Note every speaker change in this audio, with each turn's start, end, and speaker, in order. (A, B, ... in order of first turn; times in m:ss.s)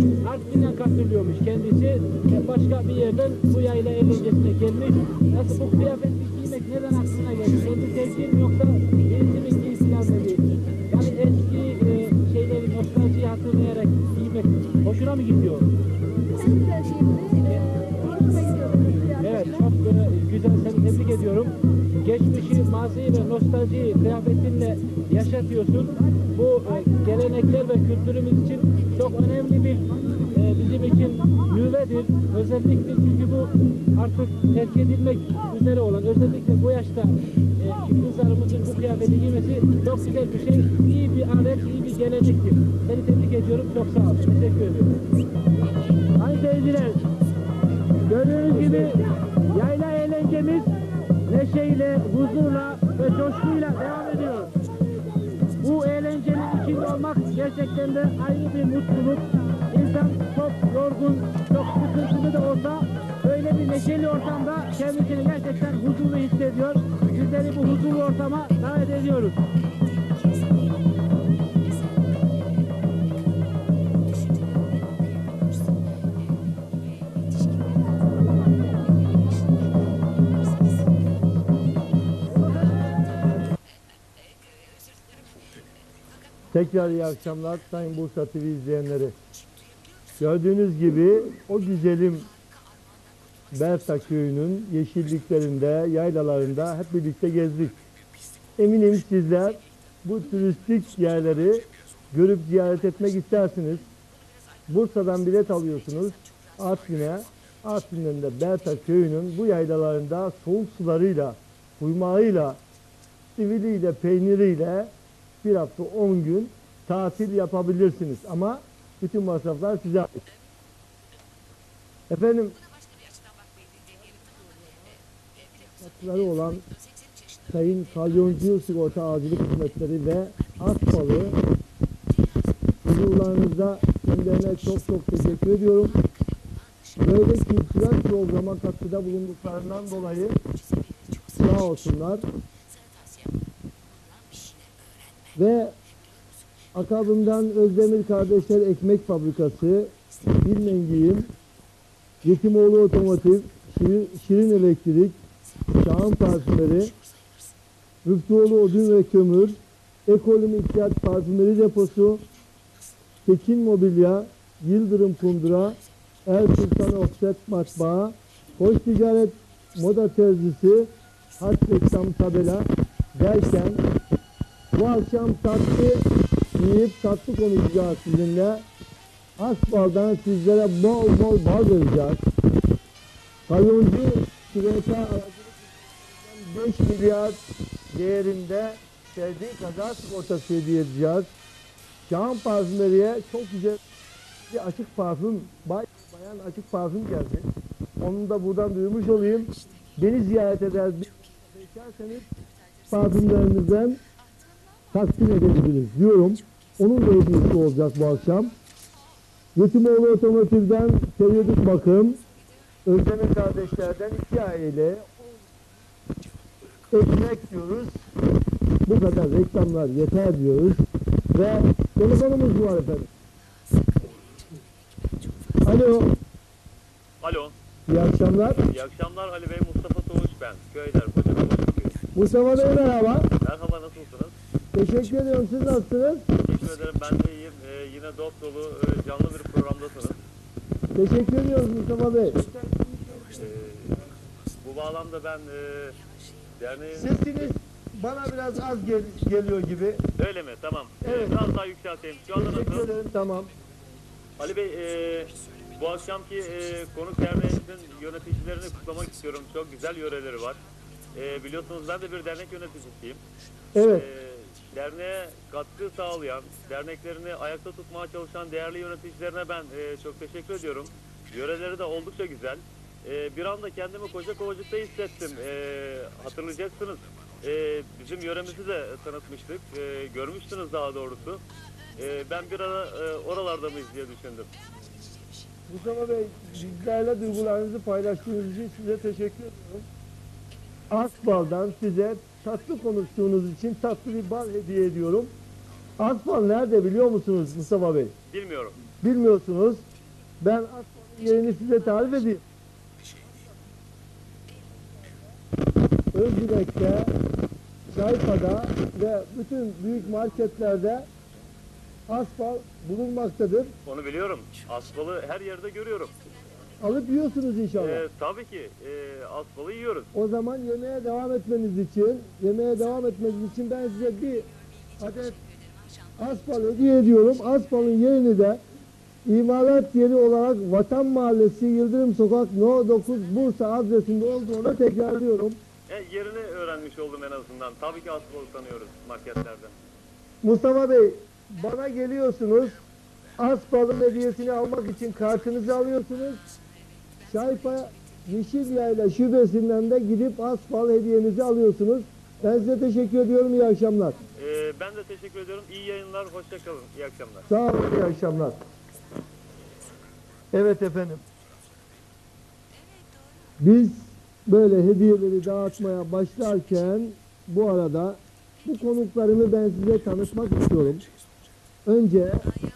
0:00.2-0:15.7 A
0:17.3-0:44.9 A
0:46.2-0:47.0 A
0:48.1-0:50.7 A
0:51.3-0:54.5 A
0:55.6-1:09.4 A
1:26.5-1:29.1 B
1:30.2-1:32.3 B
1:33.5-1:37.8 B
1:38.6-1:43.9 B
1:44.7-1:52.6 B
1:53.4-1:54.9 B
1:55.4-2:00.2 B
2:02.1-2:02.6 B
2:05.8-2:06.6 B
2:07.5-2:11.4 B
2:12.8-2:16.0 B
2:17.0-2:20.4 B
2:21.4-2:22.3 B
2:25.4-2:25.8 B
2:26.7-2:31.3 B
2:32.2-2:35.2 B
2:35.8-2:36.9 B
2:38.0-2:42.2 B
2:43.3-2:53.8 B
2:54.7-2:56.0 B
2:56.6-2:58.6 B
2:59.4-3:02.2 B
3:03.5-3:07.4 B
3:07.9-3:11.3 B
3:12.0-3:13.8 B
3:14.5-3:17.5 B
3:18.0-3:22.2 B
3:22.9-3:24.0 B
3:24.9-3:28.5 B
3:29.6-3:32.2 B
3:32.9-3:35.1 B
3:36.9-3:37.9 B
3:38.9-3:43.1 B
3:45.6-3:46.1 B
3:47.2-3:47.5 C
3:47.9-3:48.6 B
3:48.6-3:52.0 C
3:52.1-3:53.3 B
3:53.4-3:54.3 C
3:54.7-3:56.2 B
3:56.4-4:00.2 C
4:00.9-4:02.4 B
4:03.3-4:04.0 C
4:04.6-4:06.0 C
4:06.6-4:07.3 C
4:07.0-4:10.0 B
4:10.2-4:12.9 C
4:11.0-4:11.4 B
4:12.4-4:13.5 B
4:14.4-4:20.6 C
4:21.1-4:23.2 C
4:23.8-4:24.1 B
4:23.9-4:41.4 C
4:42.0-4:44.5 C
4:45.7-4:49.8 B
4:50.9-4:55.3 B
4:56.0-4:58.1 B
4:58.3-4:58.8 C
4:59.0-4:59.8 B
5:00.4-5:02.4 B
5:06.1-5:07.1 B
5:07.9-5:11.1 B
5:12.1-5:13.7 B
5:13.8-5:16.1 C
5:16.8-5:18.0 B
5:17.8-5:20.1 C
5:20.1-5:24.5 B
5:25.0-5:25.4 B
5:26.2-5:28.6 B
5:29.3-5:35.6 B
5:35.9-5:39.7 C
5:40.4-5:42.8 B
5:43.4-5:46.4 B
5:47.3-5:54.2 B
5:54.4-5:57.4 C
5:57.5-5:58.6 B
6:00.5-6:01.2 B
6:03.6-6:11.0 B
6:11.8-6:12.5 B